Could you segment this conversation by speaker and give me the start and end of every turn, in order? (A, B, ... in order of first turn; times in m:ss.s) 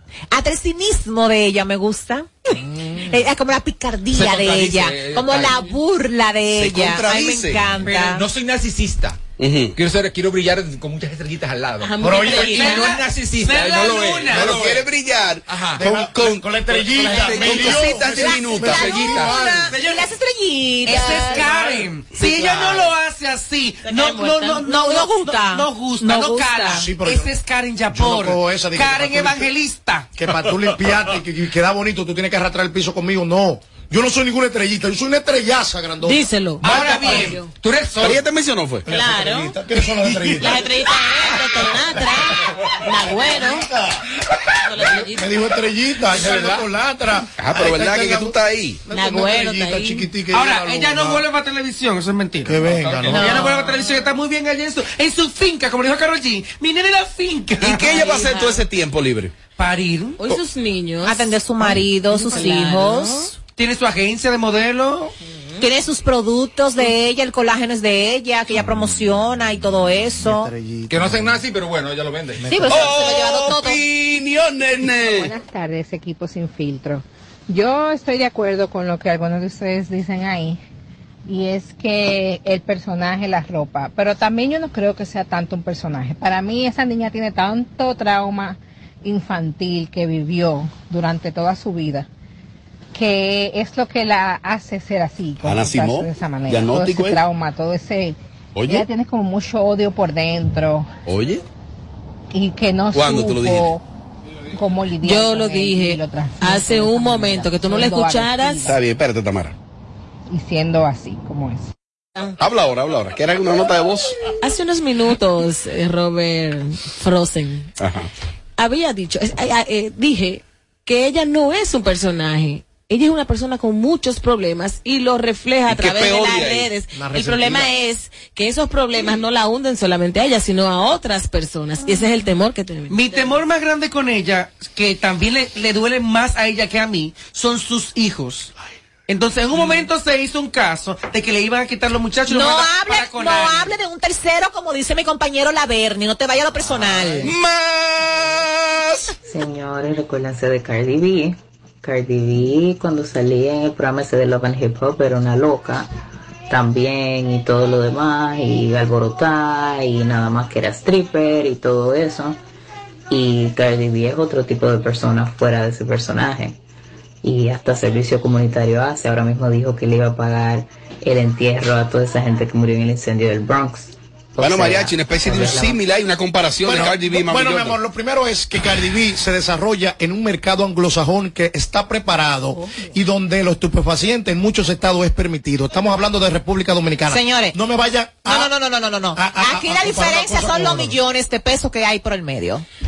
0:00.3-0:08.2 A
0:04.1-0:05.6 B
0:06.5-0:07.7 C
0:07.8-0:09.2 B
0:09.4-0:09.8 C
0:09.8-0:14.9 B
0:11.8-0:13.0 D
0:12.0-0:12.5 E
0:12.5-0:14.6 F
0:14.3-0:19.2 C
0:15.5-0:15.8 B
0:15.8-0:19.4 E
0:17.2-0:19.6 B
0:17.5-0:21.5 A
0:19.7-0:20.0 F
0:20.8-0:30.1 F
0:21.4-0:21.7 B
0:22.2-0:22.7 C
0:23.8-0:24.8 D
0:24.7-0:26.8 A
0:26.8-0:27.3 E
0:27.9-0:29.5 E
0:30.2-0:36.3 E
0:36.0-0:37.5 D
0:36.6-0:37.4 F
0:36.7-0:38.2 B
0:38.0-0:38.9 C
0:38.9-0:40.7 E
0:38.9-0:39.6 D
0:40.3-0:43.7 D
0:43.2-0:43.9 E
0:44.7-0:45.4 D
0:45.1-0:48.4 E
0:46.1-0:46.7 B
0:47.4-0:48.8 C
0:48.9-0:51.2 E
0:48.9-0:50.1 D
0:50.3-0:58.1 F
0:52.4-0:53.5 E
0:52.7-0:53.4 B
0:53.2-0:53.8 D
0:57.6-0:59.3 C
0:57.9-0:58.6 D
0:59.6-1:00.4 F
1:00.2-1:03.3 D
1:01.0-1:03.3 A
1:03.6-1:05.1 F
1:05.6-1:10.5 A
1:10.2-1:11.4 E
1:10.9-1:12.5 B
1:12.4-1:12.9 E
1:12.5-1:13.8 A
1:12.7-1:15.3 C
1:14.9-1:20.6 G
1:21.3-1:32.1 G
1:32.9-1:40.9 G
1:35.4-1:37.2 C
1:38.6-1:38.9 C
1:41.1-1:41.4 C
1:42.3-1:43.8 G
1:42.9-1:43.7 C
1:44.5-1:48.8 G
1:45.0-1:48.7 D
1:48.6-1:49.6 C
1:50.3-1:51.7 G
1:52.4-1:54.1 C
1:54.4-1:57.7 D
1:57.8-1:58.1 C
1:58.6-2:13.4 D
2:05.7-2:06.8 C
2:06.9-2:07.7 E
2:12.9-2:18.5 F
2:19.1-2:23.8 F
2:22.3-2:27.3 A
2:27.2-2:29.1 C
2:29.3-2:35.9 H
2:36.5-2:42.4 H
2:43.1-2:46.6 H
2:47.2-2:55.8 H
2:54.4-2:57.8 C
2:56.6-3:08.5 E
3:07.1-3:07.6 A
3:08.3-3:12.6 A
3:09.2-3:11.0 E